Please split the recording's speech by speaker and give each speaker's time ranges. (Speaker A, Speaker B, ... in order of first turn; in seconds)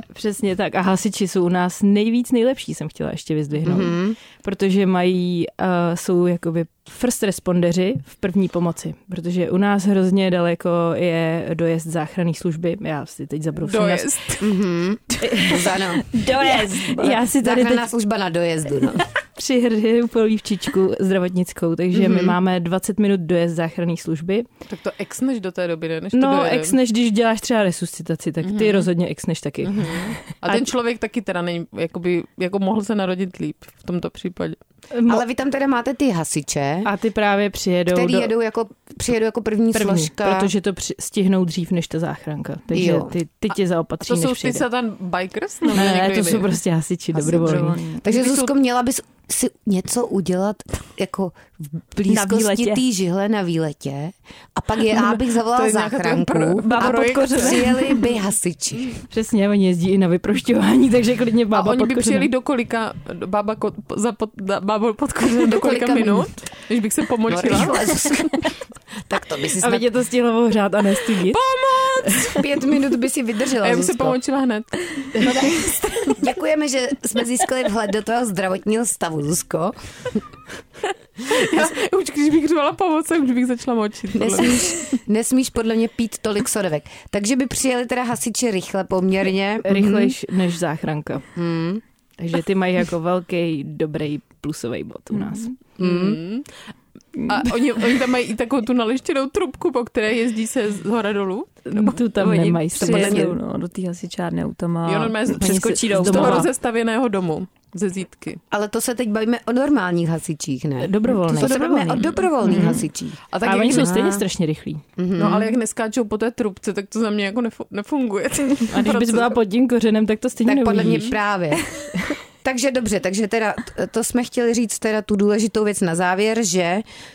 Speaker A: 0.1-14.2, 15.2-17.9, 19.4-24.5, 26.1-30.7, 34.9-35.2, 36.9-38.3, 39.7-44.7, 45.7-47.8, 52.1-52.8, 59.1-62.3, 69.6-71.4, 89.7-91.2, 92.2-95.5, 101.7-103.4, 105.3-106.5, 110.8-112.8, 113.4-114.8, 118.7-121.2
Speaker B: 3.6-4.2, 14.4-19.1, 22.0-22.3, 35.1-36.9, 37.9-40.5, 42.7-43.2, 47.1-59.0, 65.4-66.3, 67.3-68.5, 69.0-69.9, 72.1-74.2, 75.2-80.2, 84.1-90.2, 91.3-91.8, 95.8-96.2, 108.5-114.2, 115.0-115.5, 120.4-121.6, 122.4-126.8
Speaker C: 13.6-14.5, 24.7-26.8, 28.4-28.9, 29.6-34.6, 44.0-46.6, 48.0-48.5, 54.9-58.0, 61.5-68.2, 71.2-72.5, 73.6-75.3, 81.2-85.0, 95.8-96.5, 97.2-102.0, 102.8-103.3, 104.8-108.4, 112.0-112.8, 113.3-113.9, 115.2-119.3
Speaker D: 16.1-17.1, 45.7-46.0, 47.2-48.0, 56.6-58.0, 75.3-76.1, 95.1-95.5, 97.2-97.5, 102.1-106.5, 111.3-112.0